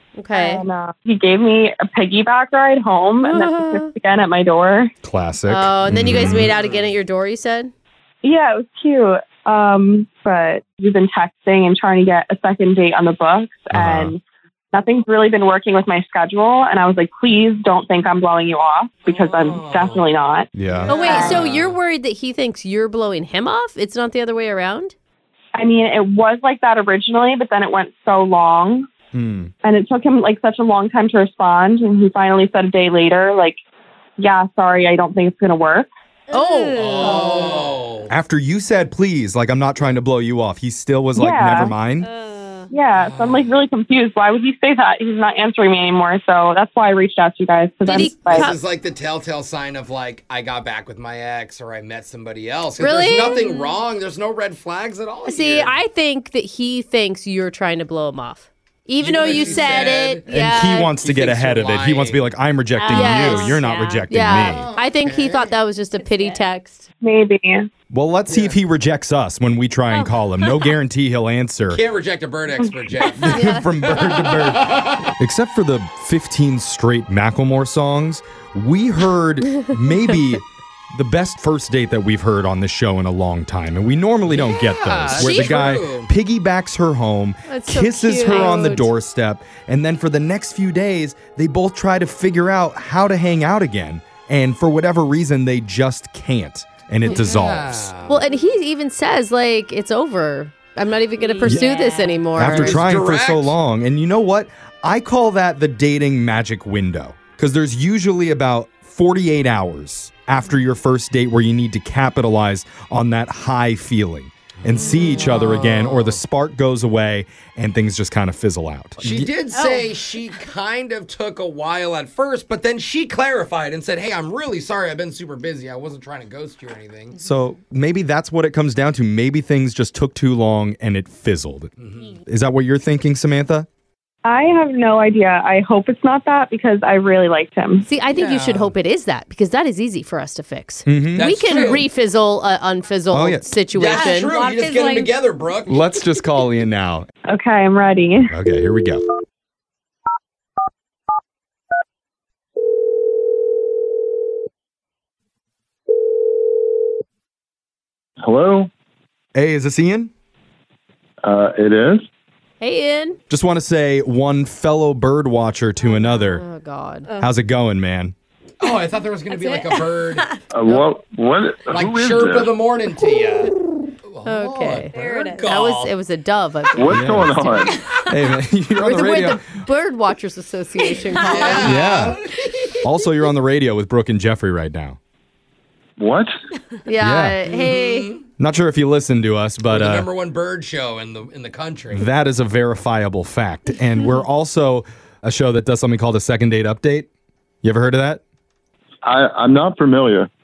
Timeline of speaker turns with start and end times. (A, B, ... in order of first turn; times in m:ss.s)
0:00.2-0:00.6 A
0:00.3-0:04.9 B
0:03.2-0:03.9 A
0:05.0-0:06.5 C
0:05.5-0:07.7 A
0:06.2-0:06.9 D
0:08.2-0:14.2 B
0:13.7-0:14.1 C
0:14.7-0:21.4 B
0:19.1-0:20.1 D
0:20.6-0:21.4 C
0:20.7-0:21.8 D
0:20.9-0:24.9 A
0:25.6-0:28.9 B
0:29.1-0:29.5 C
0:29.6-0:33.6 B
0:34.2-0:35.9 B
0:36.3-0:37.2 A
0:36.4-0:37.2 E
0:36.8-0:38.1 D
0:38.1-0:42.1 C
0:41.2-0:41.7 B
0:42.0-0:42.7 E
0:42.7-0:48.5 B
0:42.9-0:43.6 D
0:47.8-0:48.6 A
0:48.0-0:55.8 D
0:52.8-0:53.6 A
0:55.3-1:00.9 A
0:59.0-1:00.2 D
1:00.3-1:04.7 C
1:01.0-1:02.3 D
1:02.8-1:04.0 E
1:02.9-1:06.9 A
1:04.4-1:05.6 D
1:06.0-1:06.4 E
1:07.0-1:07.7 B
1:07.9-1:11.8 C
1:08.3-1:08.6 D
1:09.9-1:10.6 E
1:11.7-1:15.1 D
1:13.2-1:37.9 C
1:13.3-1:13.7 A
1:24.3-1:26.1 D
1:25.1-1:25.7 A
1:27.5-1:28.9 A
1:28.3-1:28.6 E
1:37.1-1:38.2 D
1:38.1-1:42.9 A
1:41.2-1:42.2 E
1:42.4-1:59.3 C
1:42.4-1:43.6 D
1:54.6-1:56.2 D
1:59.0-2:07.2 D
2:07.2-2:11.7 C
2:11.8-2:12.2 D
2:12.3-2:13.7 C
2:14.2-2:17.9 B
2:17.8-2:24.4 A
2:18.1-2:18.7 D
2:20.9-2:21.7 C
2:21.1-2:21.9 D
2:23.1-2:23.5 C
2:23.8-2:25.9 D
2:24.3-2:25.1 E
2:25.7-2:27.1 C
2:27.3-2:28.3 B
2:28.3-2:29.0 C
2:38.2-2:38.7 F
2:39.4-2:40.1 C
2:41.2-2:42.0 F
2:42.6-2:43.2 A
2:43.3-2:46.4 C
2:46.1-2:47.1 A
2:47.2-2:48.2 C
2:48.6-2:50.4 D
2:49.4-2:49.7 E
2:50.5-2:52.6 F
2:51.7-2:53.5 D
2:54.0-2:55.9 D
2:54.2-2:54.9 A
2:55.0-2:55.5 E
2:55.5-2:57.8 A
2:56.8-2:57.7 F
2:56.9-2:57.4 C
2:58.1-2:59.4 C
2:58.8-3:02.0 A
3:01.2-3:02.7 D
3:01.6-3:02.2 C
3:02.8-3:05.0 C
3:06.0-3:06.3 F
3:06.8-3:08.1 A
3:07.0-3:07.4 C
3:07.5-3:08.3 D
3:08.4-3:10.1 C
3:09.6-3:12.1 D
3:11.9-3:17.1 C
3:17.6-3:18.2 C
3:19.0-3:20.3 F